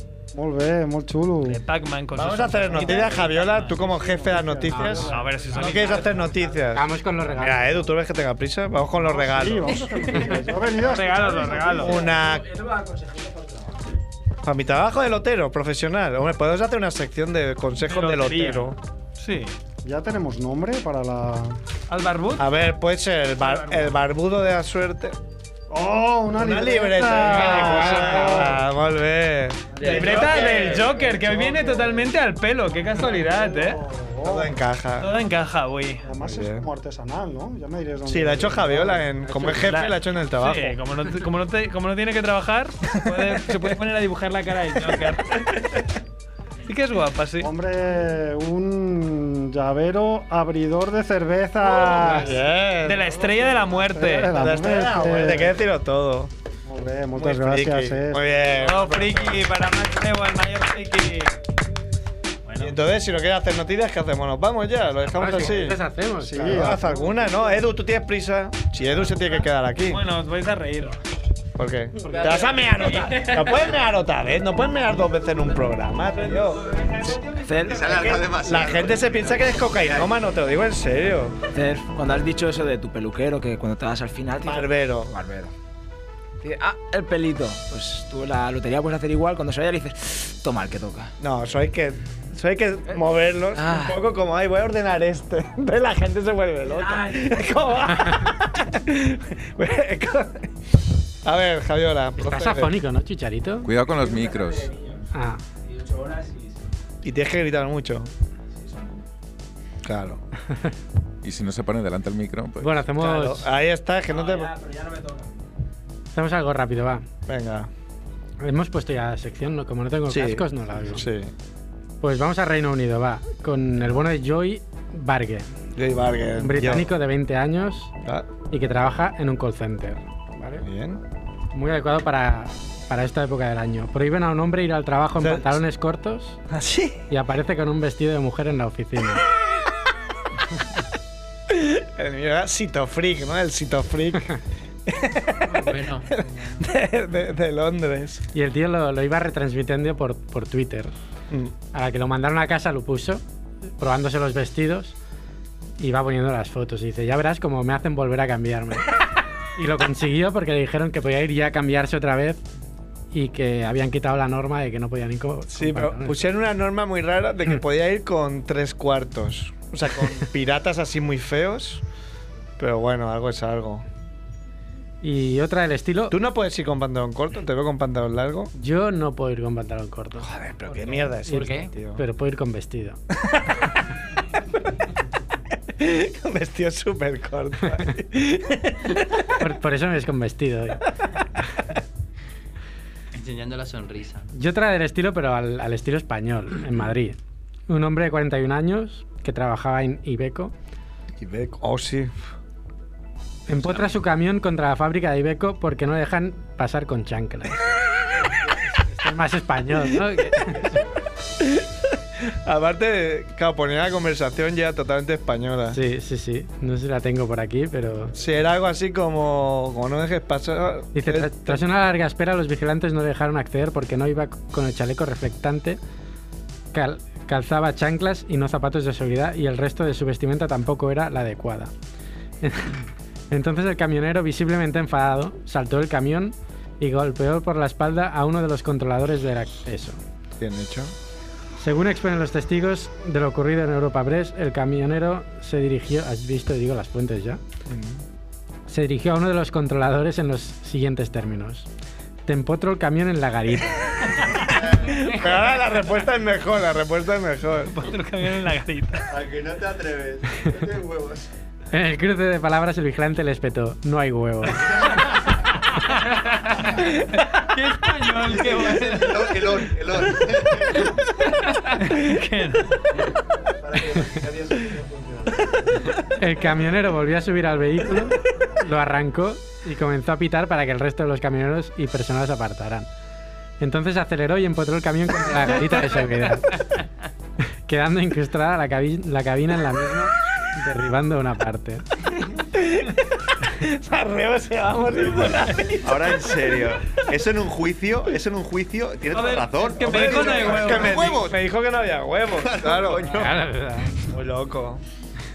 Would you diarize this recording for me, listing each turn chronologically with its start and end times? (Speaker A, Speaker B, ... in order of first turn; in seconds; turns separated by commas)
Speaker A: 0.3-1.6, Speaker B: 1.4-4.4, Speaker C: 2.1-10.2, Speaker A: 4.3-5.2, Speaker D: 4.7-5.9, Speaker B: 5.0-6.2, Speaker D: 6.6-7.8, Speaker A: 9.0-11.9, Speaker B: 10.8-12.1, Speaker C: 11.5-12.4, Speaker E: 11.9-13.8, Speaker C: 14.4-18.8, Speaker B: 17.8-19.5, Speaker A: 19.8-21.6, Speaker B: 21.9-22.5, Speaker C: 22.4-25.2, Speaker B: 23.4-23.9, Speaker A: 25.7-28.6, Speaker C: 26.3-31.8, Speaker A: 29.8-30.0, Speaker B: 29.8-33.8, Speaker A: 33.1-34.5, Speaker C: 34.2-35.1, Speaker B: 35.0-36.0, Speaker A: 36.0-39.1, Speaker C: 36.2-36.6, Speaker C: 38.1-40.8, Speaker B: 39.2-45.8, Speaker C: 43.1-43.5, Speaker B: 46.7-47.5, Speaker A: 47.4-52.3, Speaker C: 51.6-56.3, Speaker B: 52.8-54.3, Speaker A: 53.8-55.6, Speaker A: 56.6-58.3, Speaker C: 57.1-59.5, Speaker B: 58.5-61.3, Speaker B: 62.5-62.8, Speaker C: 62.6-65.8, Speaker D: 65.1-66.6, Speaker A: 66.2-66.9, Speaker C: 66.3-70.0, Speaker B: 69.9-71.0, Speaker C: 71.5-76.7, Speaker B: 72.7-73.6, Speaker B: 76.1-78.8, Speaker E: 77.4-78.0, Speaker C: 77.9-81.3, Speaker F: 78.0-78.6, Speaker E: 81.5-85.5, Speaker C: 84.4-85.1, Speaker E: 86.4-91.1, Speaker C: 91.2-100.5, Speaker E: 93.5-94.0, Speaker E: 96.7-97.5, Speaker C: 101.2-102.7, Speaker D: 102.2-103.7, Speaker G: 103.6-104.7, Speaker E: 103.8-105.1, Speaker D: 105.1-105.4, Speaker E: 105.6-106.6, Speaker C: 107.0-108.1, Speaker E: 108.5-109.0, Speaker C: 109.8-110.2, Speaker G: 111.2-112.8, Speaker D: 112.6-113.5, Speaker C: 113.0-114.5, Speaker E: 114.1-115.4, Speaker D: 116.1-117.0, Speaker C: 117.3-117.7, Speaker D: 118.4-121.1, Speaker C: 120.1-121.3, Speaker D: 122.0-125.5, Speaker C: 125.8-126.9, Speaker D: 126.3-127.9, Speaker D: 128.5-130.6, Speaker C: 130.6-131.0, Speaker D: 131.5-136.4, Speaker C: 135.2-135.6, Speaker C: 136.5-137.0, Speaker D: 137.1-139.2, Speaker C: 141.5-144.3, Speaker C: 144.9-148.2, Speaker H: 145.5-146.1, Speaker D: 148.3-150.9, Speaker D: 151.7-153.2, Speaker D: 153.8-154.9, Speaker D: 155.8-159.0, Speaker D: 159.6-162.4, Speaker D: 163.1-166.2, Speaker C: 165.5-171.8, Speaker C: 172.6-173.8, Speaker D: 175.0-176.1, Speaker C: 176.1-178.5, Speaker D: 178.5-183.0, Speaker C: 180.2-182.0, Speaker H: 181.3-181.7, Speaker C: 183.2-183.5, Speaker C: 185.8-189.3, Speaker D: 189.4-190.8, Speaker H: 193.1-194.3, Speaker D: 194.3-197.2, Speaker D: 197.7-200.5, Speaker C: 201.2-202.1, Speaker D: 203.5-207.6, Speaker D: 208.9-210.8, Speaker C: 211.4-215.8, Speaker D: 215.7-218.1, Speaker C: 218.1-221.6, Speaker D: 220.9-225.8, Speaker D: 226.7-231.7, Speaker D: 232.4-240.0, Speaker C: 240.4-240.9, Speaker D: 241.6-247.4, Speaker C: 247.7-248.0, Speaker D: 248.7-251.7, Speaker D: 252.2-254.4, Speaker C: 254.7-257.8, Speaker B: 257.7-259.1, Speaker I: 259.1-261.3, Speaker D: 261.7-264.8, Speaker B: 265.9-269.7, Speaker I: 268.4-270.8, Speaker B: 271.4-272.7, Speaker I: 273.7-275.1, Speaker D: 275.9-282.9, Speaker D: 283.6-286.7, Speaker D: 287.6-291.8, Speaker C: 292.5-293.0, Speaker C: 293.5-296.3, Speaker F: 295.8-301.0, Speaker B: 299.1-301.3, Speaker C: 299.8-303.4, Speaker F: 302.4-302.9, Speaker D: 302.9-303.9, Speaker C: 304.1-304.8